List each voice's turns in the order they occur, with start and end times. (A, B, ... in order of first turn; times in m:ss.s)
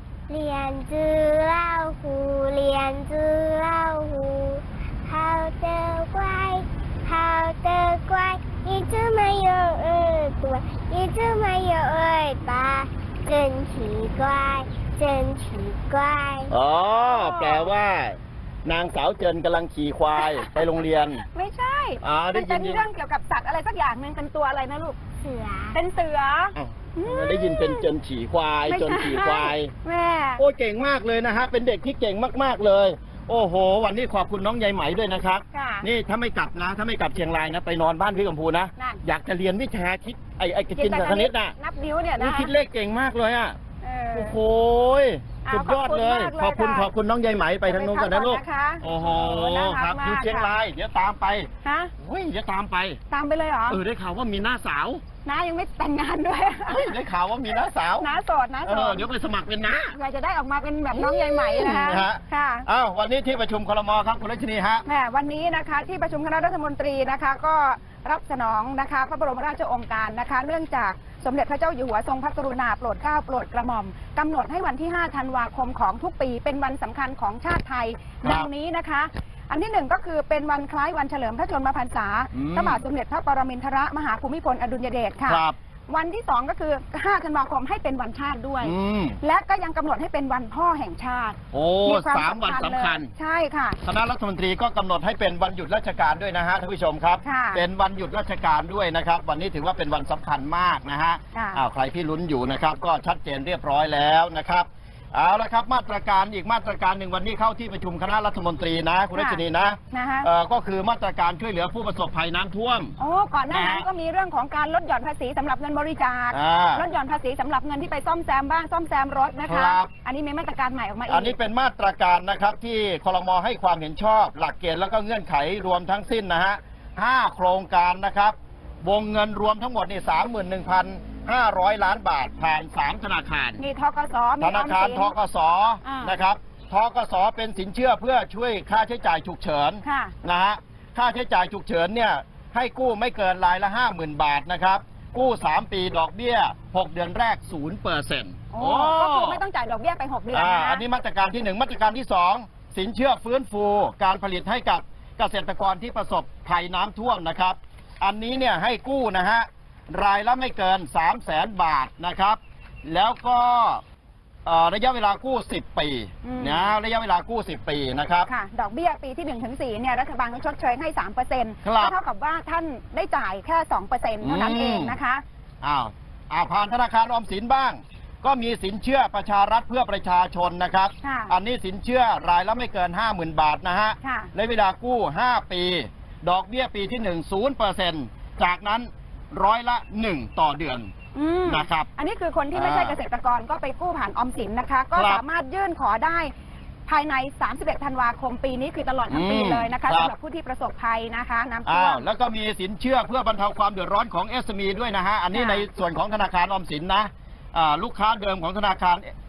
0:00.3-0:16.5 A
0:16.5-0:21.2 B
0:17.0-0:17.7 C
0:20.2-0:20.5 C
0:21.3-0:25.0 C
0:22.0-0:22.8 B
0:25.2-0:25.8 A
0:25.7-0:27.9 C
0:26.6-0:29.7 B
0:28.7-0:30.4 C
0:30.4-0:41.5 B
0:35.5-0:35.9 C
0:38.8-0:39.0 C
0:40.8-0:42.5 C
0:42.2-0:43.6 B
0:43.8-0:44.4 C
0:44.1-0:53.0 B
0:45.4-0:46.9 C
0:47.7-0:50.5 C
0:51.6-0:51.9 C
0:53.1-0:53.8 C
0:53.7-0:55.0 B
0:55.2-0:57.0 C
0:56.7-0:58.1 B
0:58.0-0:59.1 C
0:58.6-1:00.0 B
1:00.0-1:02.7 C
1:00.9-1:04.8 B
1:04.9-1:33.8 C
1:18.2-1:18.5 B
1:22.3-1:22.8 B
1:25.3-1:25.6 B
1:28.6-1:29.2 B
1:31.5-1:33.1 B
1:33.8-1:53.0 B
1:37.2-1:37.6 C
1:41.4-1:41.6 C
1:49.2-1:49.4 C
1:49.9-1:50.3 C
1:53.0-2:01.4 C
1:53.5-1:53.9 B
1:56.3-1:56.9 B
1:59.5-1:59.9 B
2:01.1-2:13.6 B
2:13.6-2:15.1 C
2:14.4-2:29.4 B
2:15.8-2:16.1 C
2:19.8-2:20.1 C
2:28.5-2:30.8 C
2:30.3-2:43.8 B
2:44.4-2:48.3 B
2:46.2-2:46.8 C
2:48.3-2:55.2 C
2:51.6-2:52.0 B
2:54.2-2:55.0 B
2:55.6-3:10.9 B
3:01.0-3:01.4 C
3:04.0-3:04.3 C
3:11.2-3:16.3 C
3:11.5-3:11.9 B
3:12.5-3:13.0 B
3:15.0-3:15.2 B
3:16.9-3:22.0 C
3:19.1-3:20.1 B
3:21.6-3:29.1 B
3:25.3-3:25.6 C